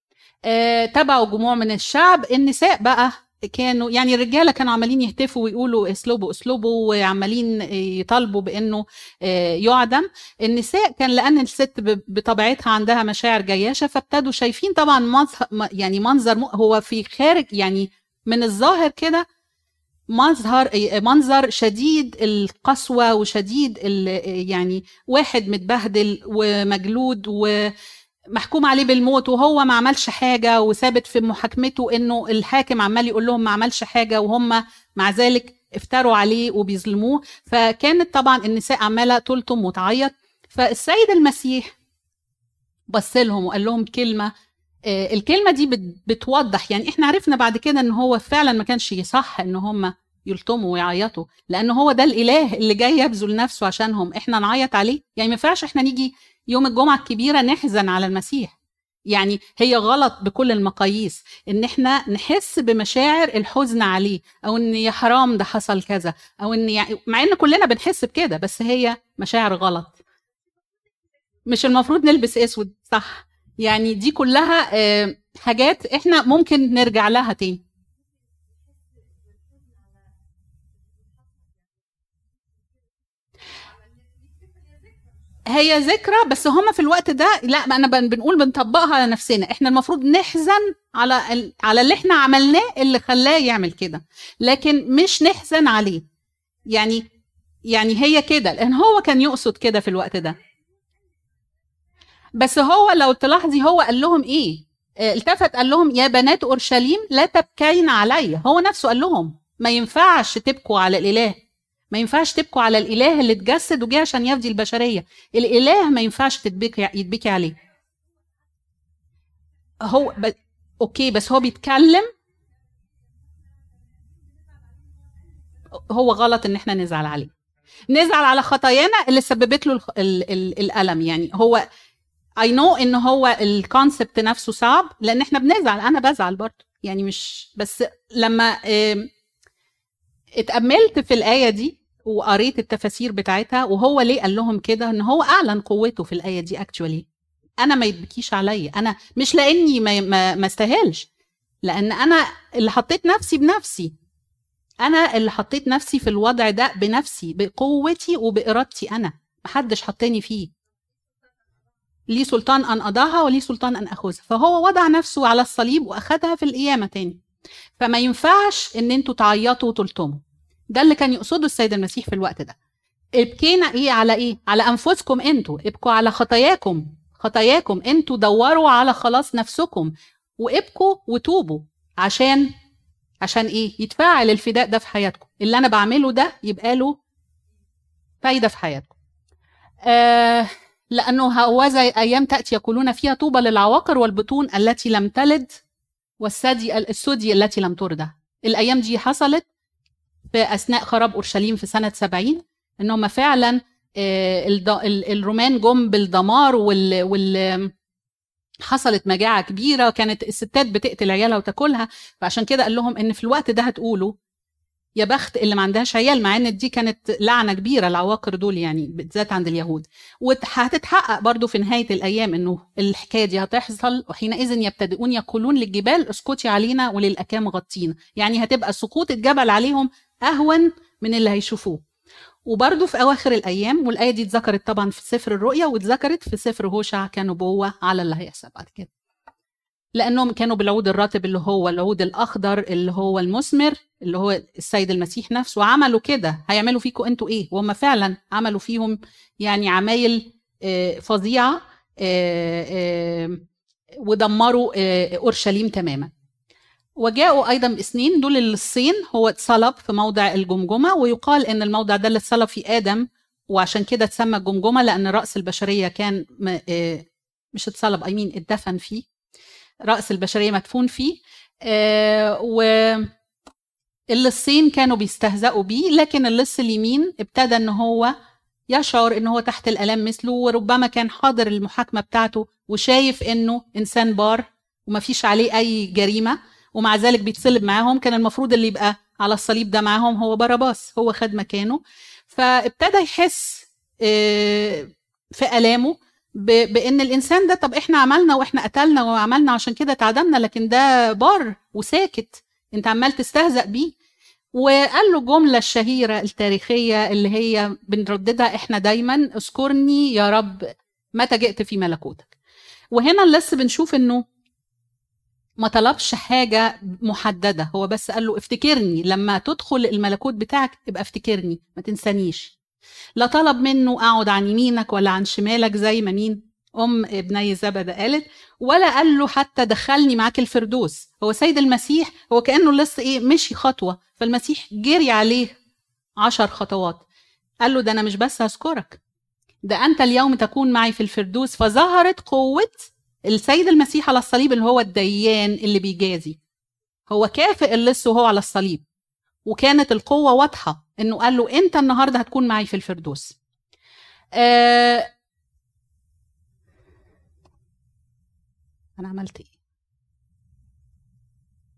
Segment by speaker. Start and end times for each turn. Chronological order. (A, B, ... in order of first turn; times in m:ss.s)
0:00.5-0:19.3 A
0:20.1-0:27.7 A
0:28.3-0:41.7 A
0:42.9-0:44.3 A
0:44.9-0:58.5 A
0:59.1-1:10.0 A
1:11.5-1:17.6 A
1:25.5-1:36.0 A
1:36.7-1:37.0 A
1:37.7-1:40.4 A
1:42.4-1:51.4 A
1:51.9-1:57.6 A
1:59.8-2:02.1 A
2:05.9-2:07.3 A
2:07.9-2:11.6 A
2:12.4-2:19.1 A
2:20.4-2:27.1 A
2:27.6-2:31.1 A
2:31.6-2:33.9 A
2:34.8-2:40.5 A
2:42.1-2:47.2 A
2:47.8-2:50.2 A
2:50.7-2:52.6 A
2:53.2-3:02.5 A
3:03.2-3:07.0 A
3:08.2-3:08.9 A
3:09.8-3:15.6 A
3:16.2-3:19.4 A
3:20.3-3:27.7 A
3:28.7-3:34.2 A
3:35.0-3:51.8 A
3:52.5-3:58.9 A
4:00.0-4:13.4 A
4:14.0-4:16.1 A
4:17.0-4:29.0 A
4:29.9-4:33.1 A
4:34.1-4:38.1 A
4:38.7-4:51.8 A
4:52.3-5:04.0 A
5:04.5-5:12.3 A
5:12.9-5:14.2 A
5:15.6-5:22.5 A
5:23.2-5:35.6 A
5:36.2-5:37.0 A
5:37.6-5:39.0 A
5:39.6-5:46.4 A
5:47.1-5:48.8 A
5:49.5-5:53.4 A
5:54.4-5:55.1 A
5:59.0-5:59.5 A